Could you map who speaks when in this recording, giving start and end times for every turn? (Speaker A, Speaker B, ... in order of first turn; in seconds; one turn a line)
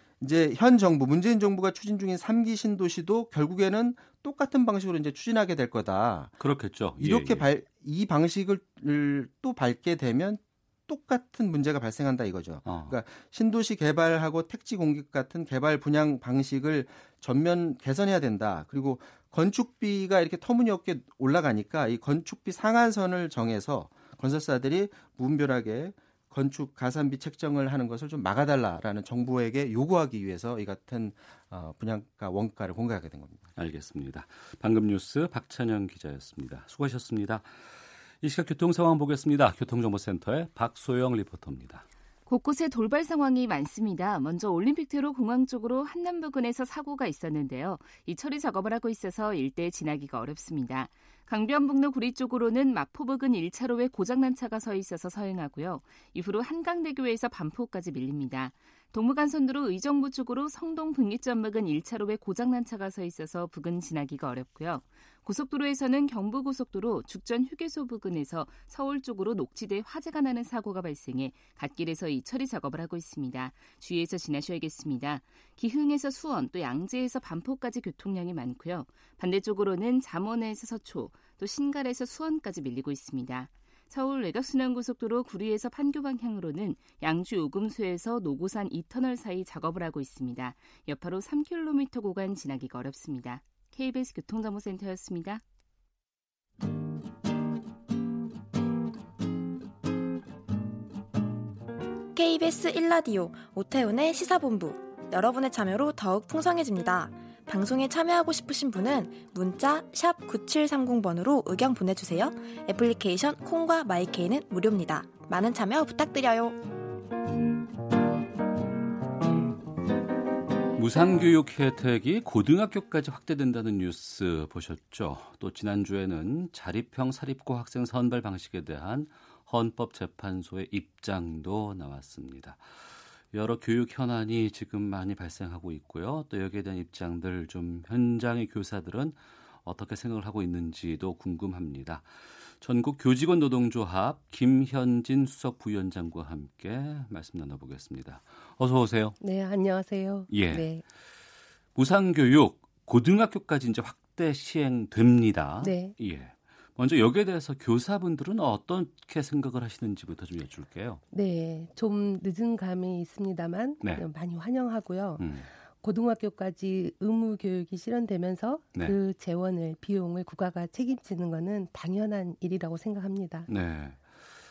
Speaker A: 0.2-6.3
Speaker B: 6.4-7.5
Speaker A: 7.0-33.4
Speaker B: 12.6-13.0
Speaker B: 33.6-37.5
Speaker B: 38.2-41.8
Speaker C: 42.3-95.4
Speaker D: 102.1-116.6
Speaker B: 120.8-132.6
Speaker B: 133.3-149.2
Speaker E: 149.2-150.8
Speaker B: 150.3-150.7
Speaker B: 151.7-161.0
Speaker E: 155.6-155.9
Speaker E: 161.1-165.3
Speaker B: 165.2-165.5
Speaker E: 165.8-173.5
Speaker B: 173.5-174.0